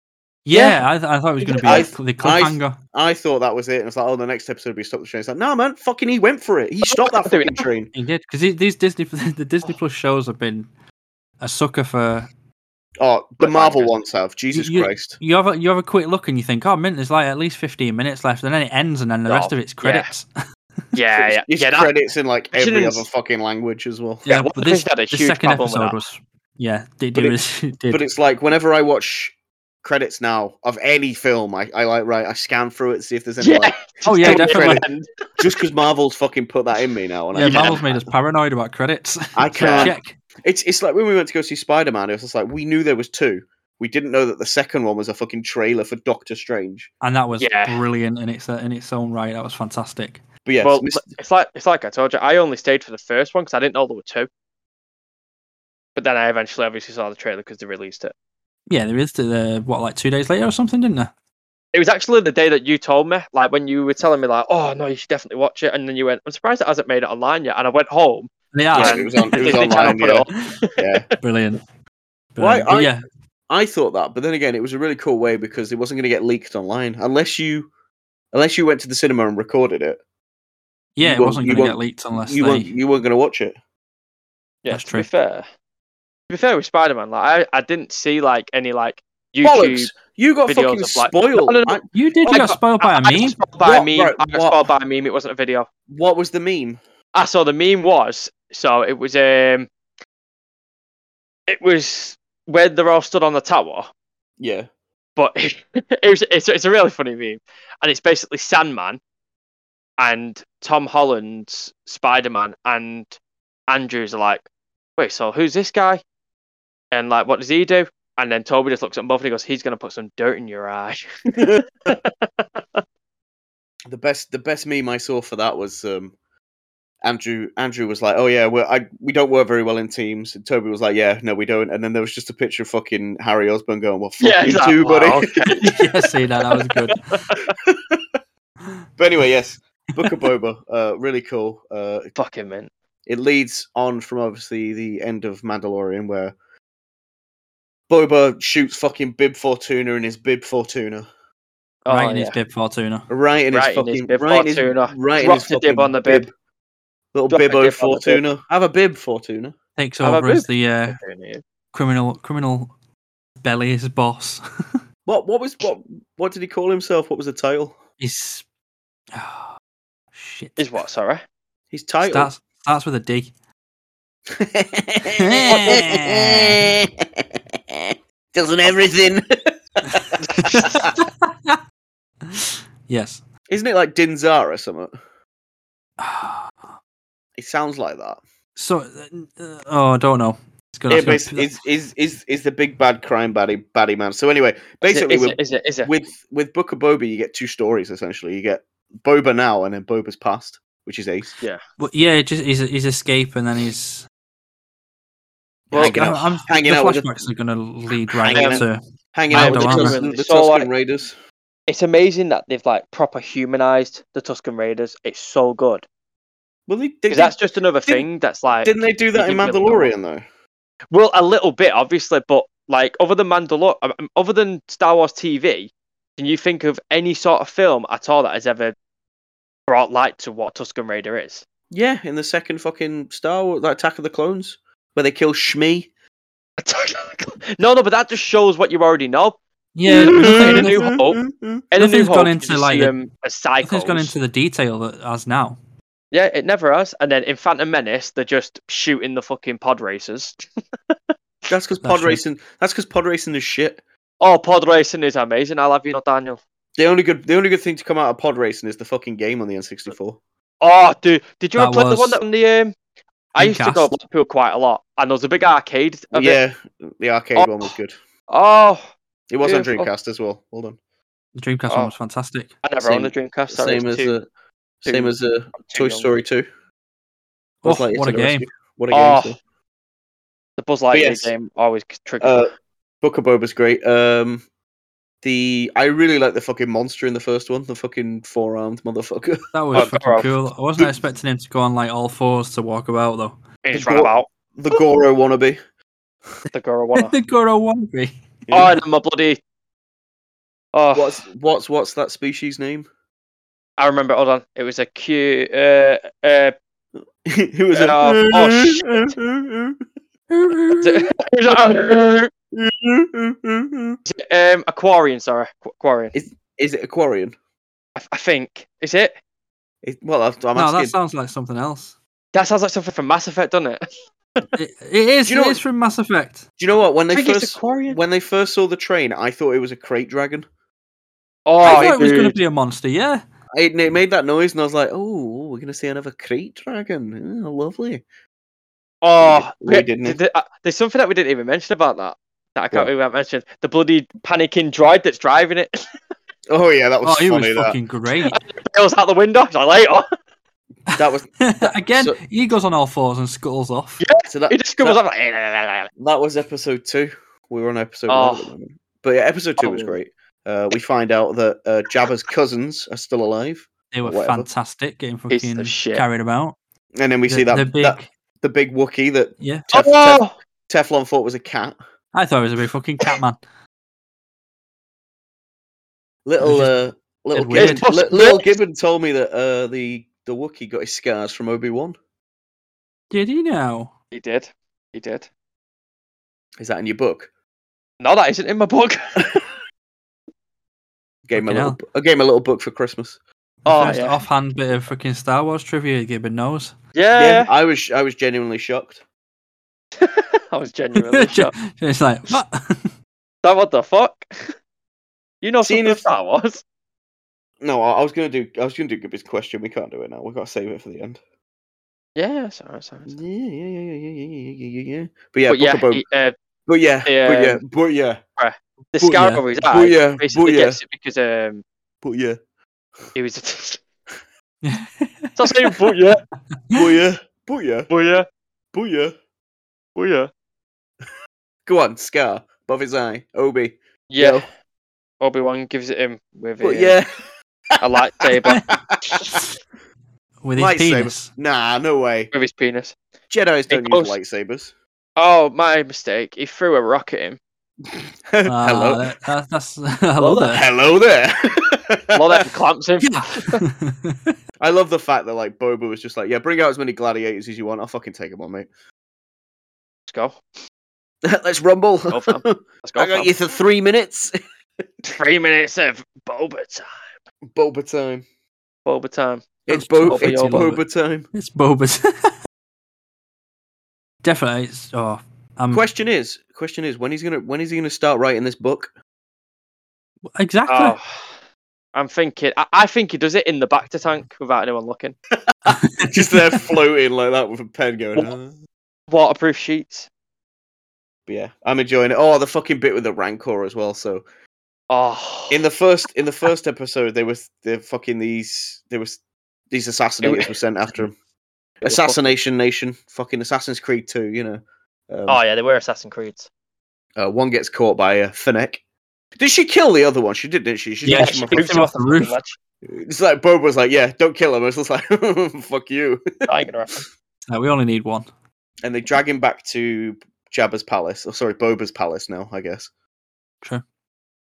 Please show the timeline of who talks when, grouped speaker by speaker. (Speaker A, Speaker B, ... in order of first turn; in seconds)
Speaker A: 0.5-2.8, 8.0-10.7, 11.4-12.3, 14.5-20.3, 24.3-28.0, 34.1-34.9, 37.3-40.1, 47.0-50.2, 58.7-61.1, 68.5-70.0, 71.2-71.6, 72.3-73.0, 81.0-82.7, 84.7-85.1, 91.9-93.4, 135.6-137.0, 151.9-153.1, 159.8-161.0, 161.7-162.7, 163.4-164.4, 168.0-168.4, 169.1-169.5, 170.1-170.6, 172.0-173.3, 175.1-176.7, 180.4-181.6, 182.3-183.2, 186.0-186.6, 188.6-191.5, 201.8-204.1, 205.7-210.0, 239.8-240.9, 241.8-242.9, 243.6-245.6, 251.8-252.2, 261.6-262.2, 263.4-263.9, 271.4-272.6, 277.6-278.4, 289.5-293.4, 297.0-298.1, 320.6-321.9, 324.6-326.4, 331.6-333.2, 347.0-348.4, 351.0-354.0, 363.9-366.6, 367.3-368.1, 369.4-369.7, 372.1-373.4, 376.4-376.7, 377.3-377.9, 383.1-383.9, 391.4-391.8, 393.7-396.8, 401.0-402.9, 419.0-419.4, 424.6-425.7, 440.4-441.3, 448.5-450.7, 453.0-454.4, 469.7-470.8, 471.3-472.3, 474.2-475.8, 480.4-481.0, 485.7-486.2, 511.0-512.4, 517.5-518.3
Speaker B: 1.4-1.9, 6.8-7.7, 13.4-13.9, 19.3-20.1, 20.9-21.9, 22.5-23.1, 24.3-26.0, 33.4-35.0, 37.4-37.9, 39.5-40.0, 47.4-47.8, 50.6-54.3, 56.0-58.1, 61.7-70.8, 84.6-85.5, 86.3-90.0, 90.5-95.7, 97.2-99.7, 101.5-103.9, 105.2-109.0, 110.0-113.2, 113.7-114.5, 115.0-116.0, 116.9-122.6, 134.2-135.9, 136.9-137.5, 142.2-142.7, 151.9-152.3, 153.5-156.3, 157.3-158.2, 160.0-161.4, 170.6-171.2, 180.2-180.8, 194.8-195.9, 205.7-206.1, 208.3-208.7, 209.3-210.7, 211.7-215.8, 217.1-219.9, 220.9-228.8, 229.7-231.4, 236.6-244.1, 246.1-250.4, 254.2-256.4, 260.6-262.7, 263.4-266.4, 267.4-267.7, 268.3-268.9, 269.4-269.9, 272.6-274.2, 274.9-276.1, 278.9-279.4, 280.6-282.5, 289.8-290.3, 293.6-294.3, 296.5-297.1, 298.5-299.4, 300.7-301.2, 303.8-306.6, 307.7-309.1, 310.8-312.3, 314.1-316.1, 318.0-319.1, 322.3-323.9, 327.1-328.0, 331.5-332.4, 339.0-345.9, 348.3-350.1, 354.0-355.9, 358.1-358.5, 359.6-360.0, 365.3-366.0, 369.7-370.3, 377.6-378.5, 384.1-385.3, 388.0-389.4, 393.6-394.2, 396.9-397.5, 400.0-401.5, 403.4-404.5, 405.4-406.6, 412.2-413.1, 415.5-416.3, 417.1-417.6, 418.4-421.6, 423.1-423.8, 425.4-426.2, 427.9-428.3, 430.0-430.3, 434.1-434.5, 435.2-437.0, 437.8-438.6, 442.3-443.0, 443.7-444.2, 445.2-447.4, 452.1-453.6, 460.1-460.4, 462.1-463.3, 465.1-467.1, 468.9-469.5, 470.1-470.7, 480.7-481.3, 481.9-485.1, 489.1-490.1, 494.9-495.6, 500.2-500.5, 501.8-502.3, 505.3-506.5, 511.1-512.6, 516.5-517.1
Speaker C: 1.6-7.9, 13.0-15.2, 21.2-24.3, 27.9-34.9, 35.4-38.0, 39.4-46.9, 50.5-51.1, 68.7-71.1, 72.4-72.9, 73.5-77.7, 78.3-80.0, 81.0-83.6, 89.4-91.9, 93.6-94.7, 95.9-96.8, 104.4-104.7, 123.9-126.1, 127.0-135.6, 137.6-138.0, 139.0-142.1, 143.1-146.3, 147.9-151.1, 153.1-156.3, 157.1-159.6, 165.1-167.8, 171.7-172.3, 174.3-180.9, 183.5-184.9, 187.4-188.2, 190.9-201.3, 205.7-207.2, 208.1-211.2, 216.7-217.3, 218.6-220.2, 231.7-235.9, 239.9-241.6, 251.5-253.8, 256.8-260.2, 266.1-267.9, 269.3-270.8, 272.8-274.3, 274.8-276.5, 277.6-279.4, 280.9-281.3, 282.2-282.5, 283.0-284.4, 285.2-289.4, 293.7-295.6, 298.5-298.8, 300.9-302.9, 307.2-309.8, 310.5-310.9, 312.5-314.0, 316.1-317.3, 319.8-320.9, 325.3-325.6, 326.6-330.5, 331.6-332.0, 333.5-338.0, 339.2-340.2, 346.5-347.8, 350.9-352.2, 354.3-355.0, 356.0-364.5, 367.0-371.8, 376.3-382.0, 386.6-387.3, 391.3-393.2, 397.1-399.0, 405.6-406.0, 407.6-411.2, 413.1-416.0, 416.7-418.2, 419.7-420.8, 422.0-422.4, 426.7-427.9, 428.7-429.1, 431.7-434.4, 436.6-437.1, 438.6-439.4, 440.6-442.3, 443.3-444.7, 448.3-449.1, 450.2-452.4, 454.6-458.7, 461.2-464.4, 467.5-468.2, 469.7-471.3, 475.7-478.9, 485.6-488.6, 491.3-494.2, 495.5-499.2, 499.7-501.1, 501.8-505.4, 507.2-508.8, 509.4-511.9, 512.9-516.5, 518.8-522.9